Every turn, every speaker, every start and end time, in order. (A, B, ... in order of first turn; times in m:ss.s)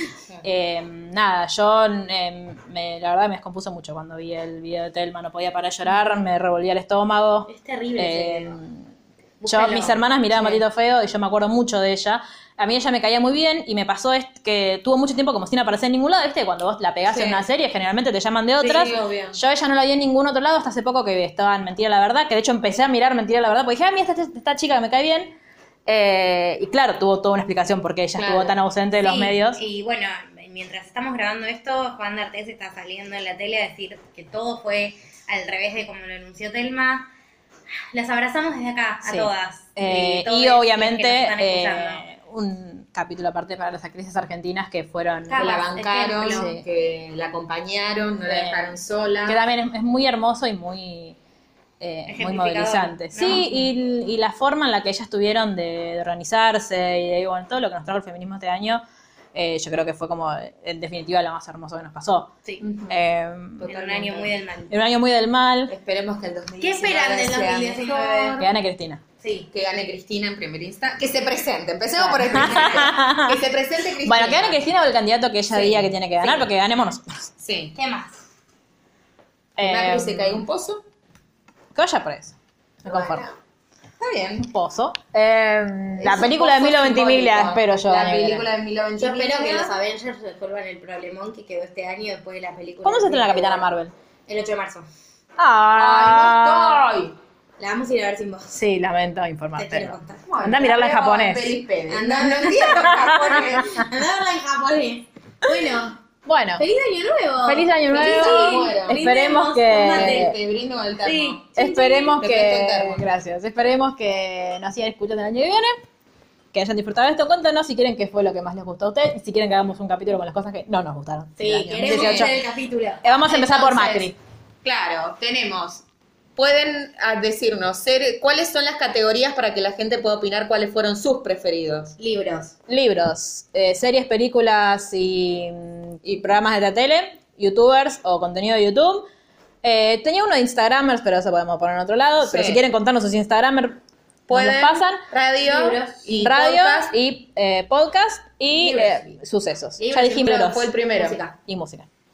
0:00.4-0:08.8 A
0:07.5-0:08.6 B
0:09.4-0:10.6 B
0:09.5-0:25.3 A
0:17.1-0:17.4 C
0:18.6-0:19.4 C
0:25.8-0:29.6 A
0:28.2-0:28.6 C
0:29.0-0:37.1 B
0:37.9-0:42.0 B
0:39.0-0:45.6 A
0:45.3-0:46.5 B
0:45.4-0:49.4 C
0:46.3-0:46.6 A
0:48.2-0:48.7 A
0:49.2-0:51.2 A
0:51.8-0:58.8 A
0:52.1-0:53.5 B
0:59.3-1:02.4 A
1:02.6-1:03.0 C
1:02.9-1:03.7 A
1:03.6-1:04.3 C
1:03.6-1:04.7 B
1:04.7-1:05.7 A
1:05.7-1:08.5 C
1:06.6-1:08.4 B
1:08.4-1:09.0 A
1:09.2-1:09.5 B
1:09.5-1:14.6 C
1:12.0-1:13.4 A
1:14.0-1:17.3 A
1:15.5-1:15.9 C
1:17.4-1:17.8 C
1:17.7-1:18.2 B
1:19.6-1:20.4 A
1:19.6-1:20.8 C
1:21.7-1:23.2 A
1:22.8-1:23.3 C
1:24.0-1:24.5 C
1:24.4-1:28.4 A
1:26.0-1:29.7 C
1:29.0-1:33.6 B
1:32.8-1:33.9 A
1:34.3-1:34.9 B
1:35.4-1:36.8 A
1:35.7-1:37.2 C
1:37.6-1:38.6 B
1:38.5-1:41.5 A
1:39.6-1:40.2 B
1:40.3-1:43.8 C
1:41.9-1:46.0 B
1:43.0-1:43.4 A
1:46.2-1:46.6 A
1:46.6-1:50.3 B
1:47.4-1:50.3 A
1:47.9-1:49.0 C
1:49.7-1:51.4 C
1:51.0-1:52.2 B
1:51.6-1:55.8 A
1:52.2-1:53.0 C
1:56.5-2:02.4 A
2:01.4-2:04.1 B
2:01.8-2:02.3 C
2:03.0-2:04.2 A
2:04.6-2:05.8 C
2:06.4-2:11.9 C
2:12.0-2:12.5 B
2:12.7-2:19.1 A
2:19.6-2:23.8 A
2:22.2-2:22.6 C
2:24.3-2:26.9 C
2:24.3-2:25.0 A
2:25.4-2:26.1 B
2:26.2-2:30.7 A
2:28.6-2:29.1 B
2:29.8-2:31.4 B
2:30.2-2:31.2 C
2:31.4-2:31.9 A